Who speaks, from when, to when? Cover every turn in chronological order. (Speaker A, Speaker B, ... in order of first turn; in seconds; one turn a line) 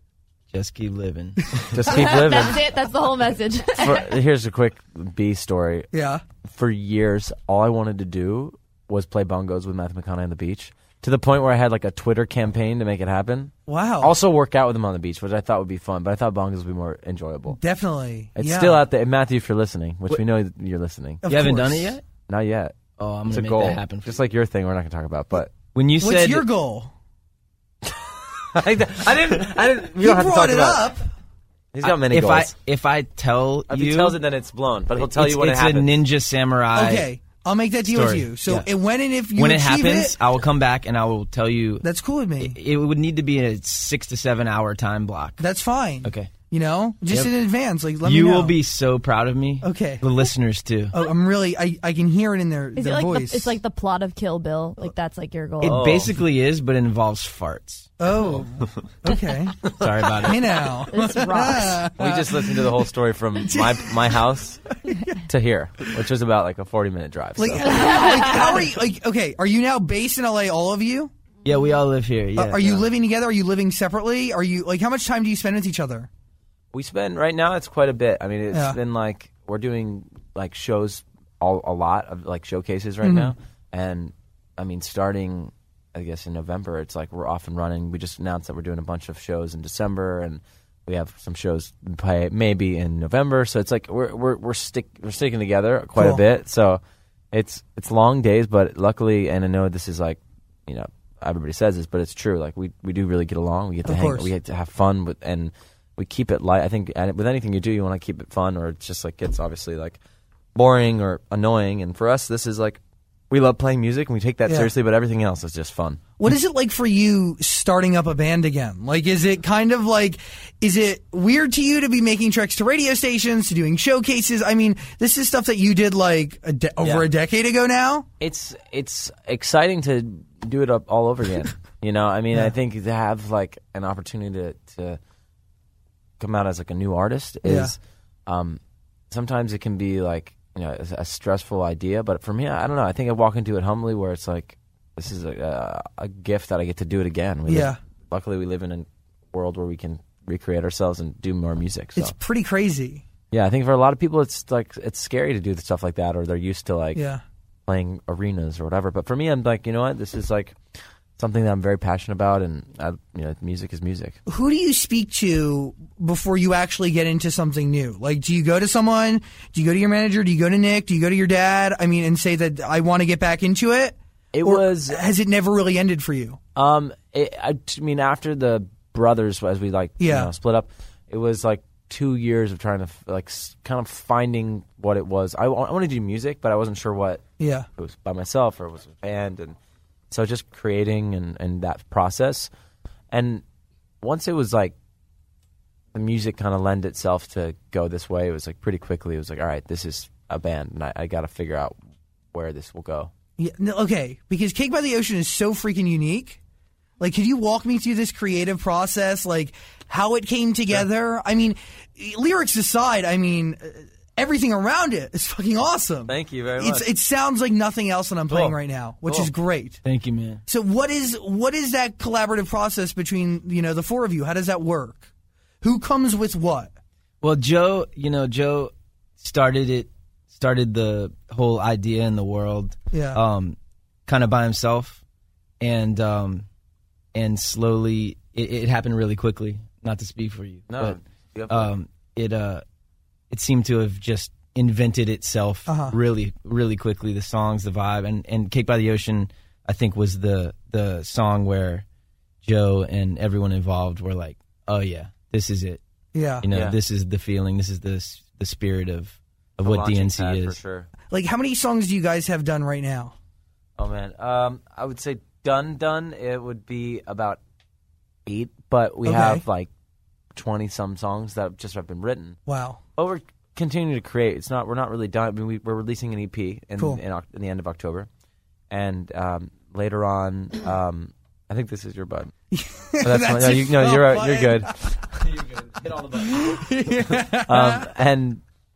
Speaker A: 0.5-1.6
Speaker B: 1.7-2.6
Speaker C: 1.8-4.1
Speaker B: 3.8-5.9
Speaker D: 5.9-6.2
Speaker B: 6.4-17.6
Speaker D: 13.7-14.1
Speaker D: 17.5-18.8
Speaker B: 18.4-21.2
Speaker D: 21.2-22.0
Speaker A: 21.3-22.0
Speaker B: 22.3-22.8
Speaker A: 23.0-24.2
Speaker B: 23.3-25.5
Speaker A: 25.7-26.4
Speaker D: 26.0-26.9
Speaker B: 28.5-30.9
Speaker D: 30.0-31.1
Speaker B: 31.7-32.5
Speaker A: 31.8-34.2
Speaker B: 33.7-36.0
Speaker A: 35.0-37.1
Speaker D: 36.7-40.2
Speaker A: 37.9-38.7
Speaker A: 39.4-41.9
Speaker D: 41.8-42.6
Speaker A: 42.4-45.4
Speaker D: 45.4-48.5
Speaker A: 46.0-46.3
Speaker A: 48.0-50.9
Speaker D: 49.6-50.1
Speaker D: 50.9-53.6
Speaker C: 52.8-56.0
Speaker A: 55.6-57.9
Speaker B: 55.6-56.1
Speaker D: 58.0-62.8
Speaker A: 59.7-60.7
Speaker C: 60.9-61.9
Speaker B: 62.0-64.6
Speaker D: 63.4-64.2
Speaker B: 65.3-68.0
Speaker D: 67.4-71.1
Speaker C: 67.8-68.2
Speaker A: 71.4-72.8
Speaker D: 72.3-76.1
Speaker B: 76.7-96.8
Speaker D: 78.5-78.8
Speaker D: 83.0-83.3
Speaker D: 96.0-96.2
Speaker B: 97.3-110.0
Speaker D: 103.8-104.3
Speaker B: 110.5-116.0
Speaker D: 114.5-114.7
Speaker D: 116.2-128.1
Speaker B: 126.8-127.1
Speaker B: 128.2-135.0
Speaker B: 136.2-152.1
Speaker D: 137.4-137.7
Speaker D: 147.5-147.8
Speaker D: 151.9-153.0
Speaker B: 153.3-157.0
Speaker D: 156.9-157.2
Speaker B: 157.7-160.6
Speaker B: 161.2-164.2
Speaker D: 164.3-176.4
Speaker B: 174.3-175.0
Speaker B: 176.6-187.2
Speaker D: 180.0-180.3
Speaker D: 187.4-187.7
Speaker B: 187.8-189.6
Speaker B: 190.1-192.5
Speaker B: 193.1-193.4
Speaker B: 194.0-194.7
Speaker B: 195.9-201.8
Speaker B: 202.3-203.1
Speaker D: 203.4-206.4
Speaker D: 207.0-219.8
Speaker B: 216.1-216.9
Speaker B: 218.3-219.3
Speaker A: 219.8-220.4
Speaker D: 220.5-225.1
Speaker D: 225.6-226.7
Speaker A: 227.2-235.0
Speaker D: 232.9-233.2
Speaker A: 235.6-236.4
Speaker A: 237.1-241.0
Speaker B: 240.7-241.7
Speaker A: 241.5-242.6
Speaker A: 243.3-251.8
Speaker D: 245.7-246.0
Speaker A: 252.4-255.8
Speaker D: 256.1-256.4
Speaker A: 256.4-260.6
Speaker B: 256.5-256.8
Speaker B: 259.6-260.9
Speaker D: 261.1-263.1
Speaker B: 263.8-267.4
Speaker B: 268.2-269.7
Speaker D: 269.0-269.4
Speaker B: 270.3-272.4
Speaker D: 272.5-272.8
Speaker B: 273.0-278.1
Speaker B: 278.7-282.3
Speaker D: 282.5-285.2
Speaker B: 283.0-284.7
Speaker B: 285.4-286.4
Speaker D: 286.2-287.9
Speaker B: 287.4-288.4